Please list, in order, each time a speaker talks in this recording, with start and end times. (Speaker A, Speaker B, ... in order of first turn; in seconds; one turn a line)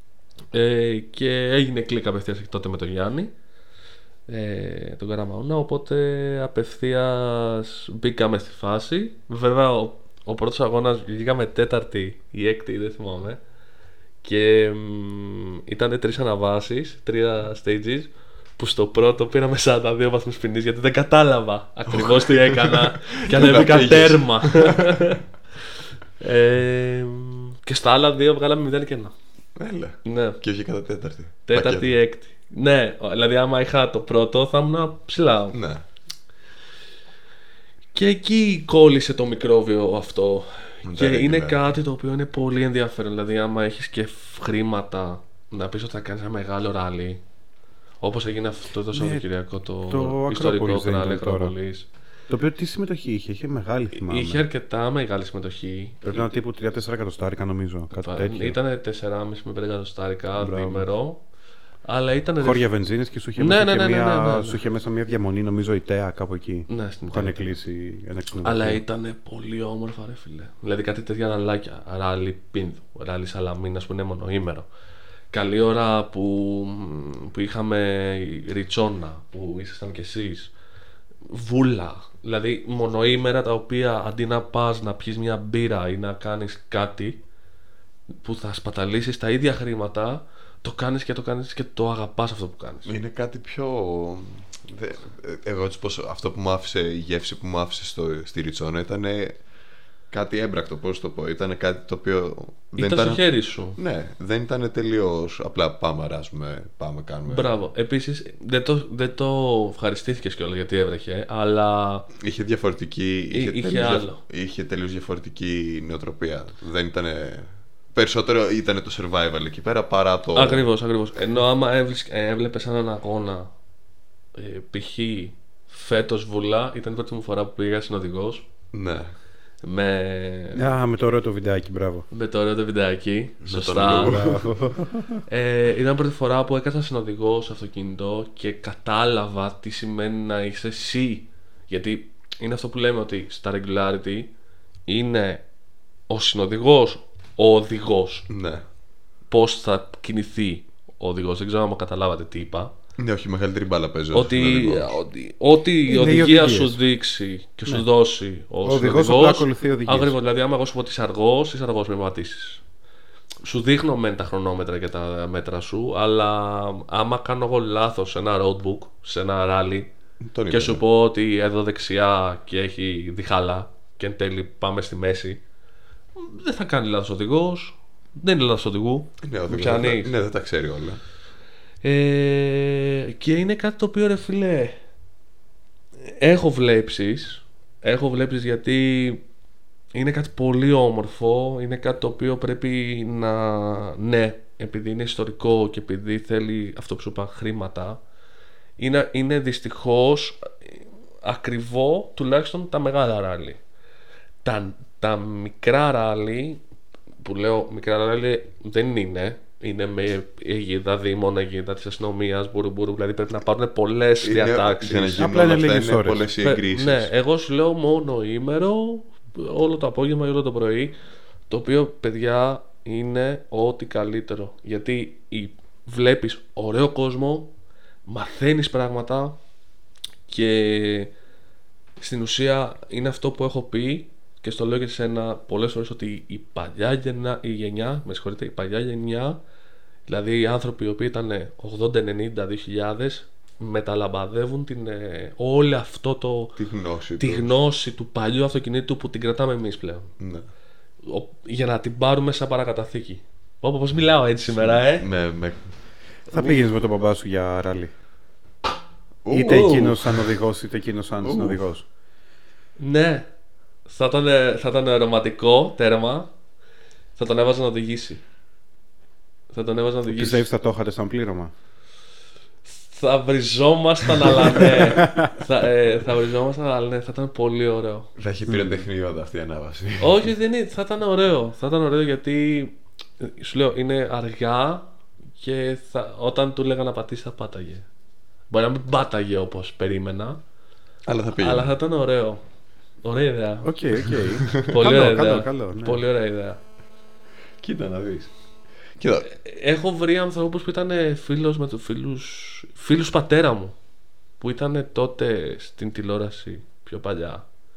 Speaker A: 0.5-3.3
Speaker A: 4.3-13.4
Speaker A: 14.2-25.2
Speaker B: 21.9-25.1
Speaker A: 26.2-29.1
Speaker B: 29.6-32.0
Speaker A: 30.0-30.4
Speaker A: 31.5-35.6
Speaker B: 35.5-35.8
Speaker A: 37.9-47.2
Speaker B: 40.8-41.7
Speaker A: 48.0-51.9
Speaker C: 48.9-49.2
Speaker C: 49.9-51.5
Speaker C: 52.3-54.4
Speaker A: 54.0-56.0
Speaker C: 56.0-58.6
Speaker A: 58.0-61.2
Speaker C: 60.4-60.9
Speaker A: 61.9-62.6
Speaker C: 62.4-68.8
Speaker A: 63.4-64.6
Speaker A: 66.7-67.6
Speaker A: 68.4-74.7
Speaker A: 75.3-80.5
Speaker A: 81.3-87.2
Speaker A: 88.2-92.9
Speaker B: 92.8-99.4
Speaker B: 100.1-103.2
Speaker A: 102.8-103.8
Speaker B: 103.8-107.5
Speaker A: 107.3-112.1
Speaker B: 112.2-120.7
Speaker A: 113.3-114.2
Speaker A: 120.3-123.5
Speaker A: 124.3-128.4
Speaker B: 128.7-129.1
Speaker A: 129.6-130.6
Speaker C: 130.5-132.1
Speaker A: 132.1-134.2
Speaker B: 133.4-134.5
Speaker C: 134.0-135.2
Speaker A: 135.3-144.3
Speaker A: 144.9-145.4
Speaker A: 146.1-148.3
Speaker B: 148.3-148.6
Speaker A: 149.3-152.7
Speaker B: 153.0-154.9
Speaker A: 154.1-162.6
Speaker C: 155.9-156.8
Speaker C: 158.6-160.1
Speaker A: 163.4-169.9
Speaker B: 170.2-170.8
Speaker A: 170.5-175.4
Speaker A: 176.2-180.1
Speaker B: 179.2-181.0
Speaker A: 181.8-184.8
Speaker A: 186.0-189.2
Speaker A: 189.9-198.0
Speaker A: 198.8-203.6
Speaker A: 204.4-206.6
Speaker A: 207.2-215.2
Speaker B: 214.2-217.1
Speaker C: 215.2-216.2
Speaker A: 216.4-220.9
Speaker A: 221.5-227.5
Speaker A: 228.1-229.3
Speaker A: 230.3-231.1
Speaker A: 232.0-239.4
Speaker A: 240.1-246.6
Speaker B: 246.6-247.5
Speaker A: 247.2-250.1
Speaker B: 250.2-250.4
Speaker A: 251.0-255.1
Speaker B: 254.6-255.7
Speaker C: 256.3-257.9
Speaker B: 259.2-260.1
Speaker C: 259.3-261.8
Speaker A: 259.3-260.0
Speaker B: 261.2-261.6
Speaker A: 262.8-263.2
Speaker A: 263.9-266.3
Speaker A: 267.2-268.2
Speaker A: 269.5-270.4
Speaker C: 270.1-271.5
Speaker A: 272.7-278.1
Speaker C: 275.0-275.3
Speaker B: 278.2-280.3
Speaker C: 278.5-278.8
Speaker A: 280.0-287.9
Speaker A: 288.5-290.4
Speaker B: 291.1-291.7
Speaker A: 291.4-292.4
Speaker A: 293.0-296.6
Speaker C: 293.6-296.0
Speaker B: 297.6-298.3
Speaker B: 299.0-299.3
Speaker A: 299.3-303.7
Speaker A: 304.4-307.4